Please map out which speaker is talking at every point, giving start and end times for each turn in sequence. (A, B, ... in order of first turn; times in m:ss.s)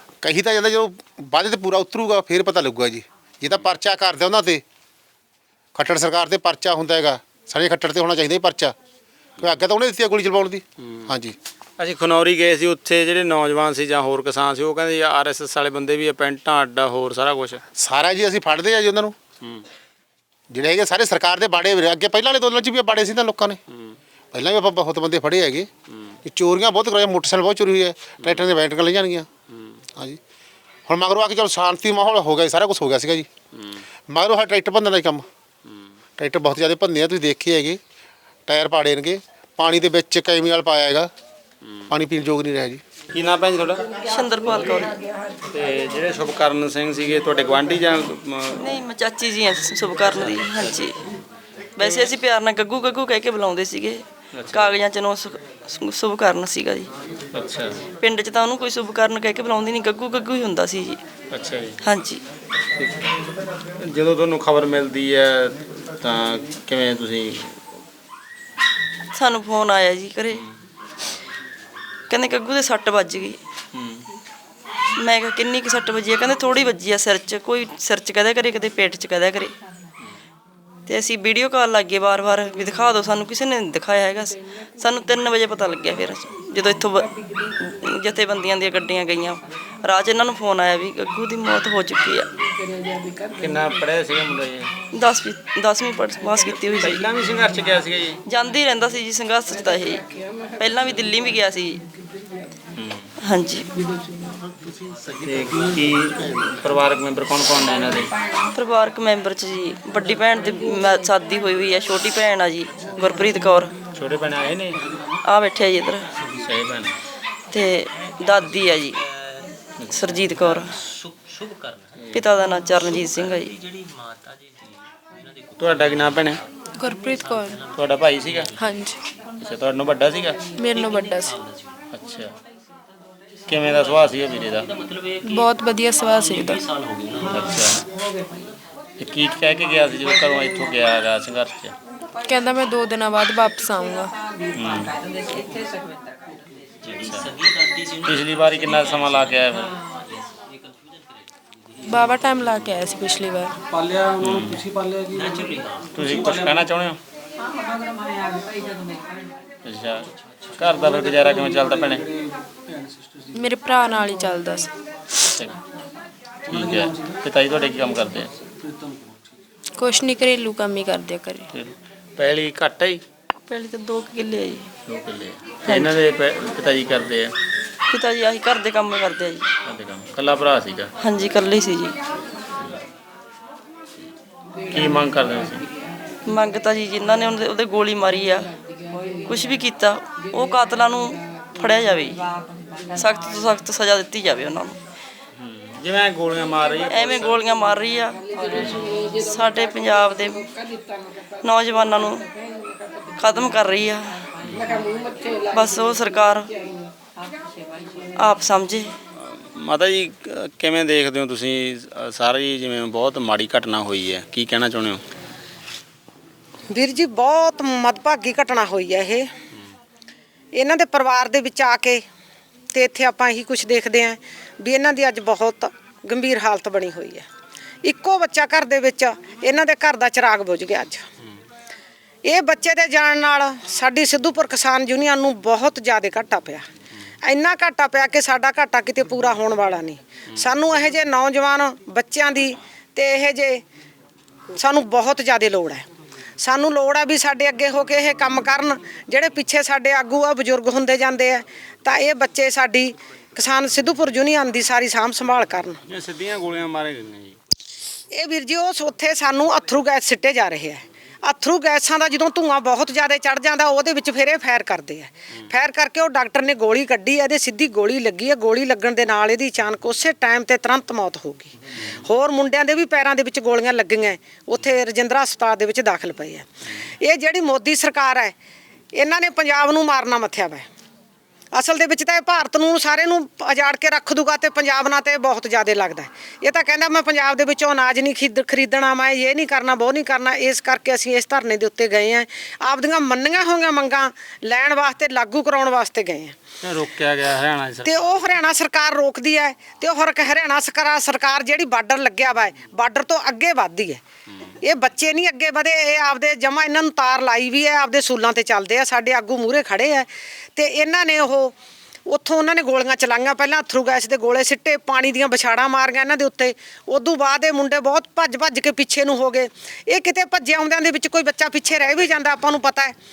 0:00.2-0:04.6 A
0:05.7-0:08.7 A
0:09.4-0:11.4 A
0:11.8-0:17.6 B
0:17.8-0:19.1 A
0:20.5-0:23.6 A
0:24.3-0:25.7 A
0:26.2-0:29.3 A
0:30.9-0:33.3 A
0:34.1-0:35.2 A
0:36.2-0:37.8 A
0:38.5-0:41.1 A
0:41.9-0:42.8 A
0:43.1-0:43.9 B
0:44.0-0:44.9 C
0:45.5-0:48.6 B
0:48.6-0:51.0 C
0:51.8-0:56.9 C
0:54.3-0:54.7 B
0:57.3-0:57.8 B
0:58.0-1:01.0 C
1:01.3-1:01.8 B
1:01.8-1:02.2 C
1:02.8-1:03.1 B
1:03.8-1:07.5 B
1:09.1-1:10.4 C
1:12.1-1:13.4 C
1:13.7-1:14.0 B
1:15.0-1:19.5 C
1:20.9-1:27.1 C
1:27.6-1:32.3 C
1:33.4-1:34.7 B
1:34.9-1:37.0 C
1:36.8-1:38.2 B
1:38.2-1:40.0 C
1:40.6-1:41.8 C
1:42.8-1:43.1 B
1:43.2-1:43.7 C
1:45.2-1:48.1 B
1:48.5-1:53.7 C
1:53.9-1:54.8 B
1:55.2-1:56.1 C
1:56.4-1:56.9 B
1:57.5-1:59.0 C
1:59.9-2:00.8 C
2:02.1-2:03.6 C
2:05.6-2:06.4 B
2:06.8-2:07.6 D
2:07.7-2:08.5 B
2:08.6-2:09.0 D
2:09.4-2:10.4 B
2:10.6-2:11.4 D
2:11.9-2:12.3 B
2:13.5-2:14.7 B
2:15.2-2:16.7 D
2:17.2-2:17.8 B
2:19.0-2:21.7 B
2:22.2-2:24.1 D
2:24.6-2:24.9 B
2:26.8-2:27.4 B
2:28.0-2:29.8 B
2:31.9-2:33.6 D
2:34.2-2:34.7 B
2:35.9-2:37.0 B
2:39.6-2:42.0 B
2:43.3-2:44.7 D
2:45.2-2:45.6 B
2:46.5-2:48.3 B
2:49.8-2:51.5 D
2:51.5-2:53.0 B
2:53.4-2:54.7 C
2:54.9-2:57.4 B
2:55.6-2:55.9 C
2:57.9-2:59.5 C
2:59.6-3:00.9 B
3:01.0-3:02.0 C
3:04.7-3:05.6 B
3:06.2-3:08.5 C
3:09.2-3:12.3 C
3:12.9-3:14.8 C
3:15.4-3:17.4 B
3:16.9-3:20.5 C
3:21.4-3:22.3 C
3:23.2-3:24.3 C
3:25.5-3:26.5 C
3:28.2-3:28.9 C
3:29.2-3:35.0 B
3:36.7-3:39.3 E
3:40.5-3:42.0 E
3:42.7-3:47.2 E
3:47.8-3:51.0 E
3:52.2-3:56.6 E
3:57.2-4:03.6 E
4:04.6-4:05.9 E
4:06.4-4:15.8 E
4:15.9-4:17.4 B
4:18.1-4:36.4 E
4:37.0-4:38.3 E
4:38.9-4:40.6 E
4:41.5-4:56.3 E
4:56.6-4:58.2 B
4:57.8-5:04.0 E
5:04.6-5:11.5 E
5:12.1-5:22.9 E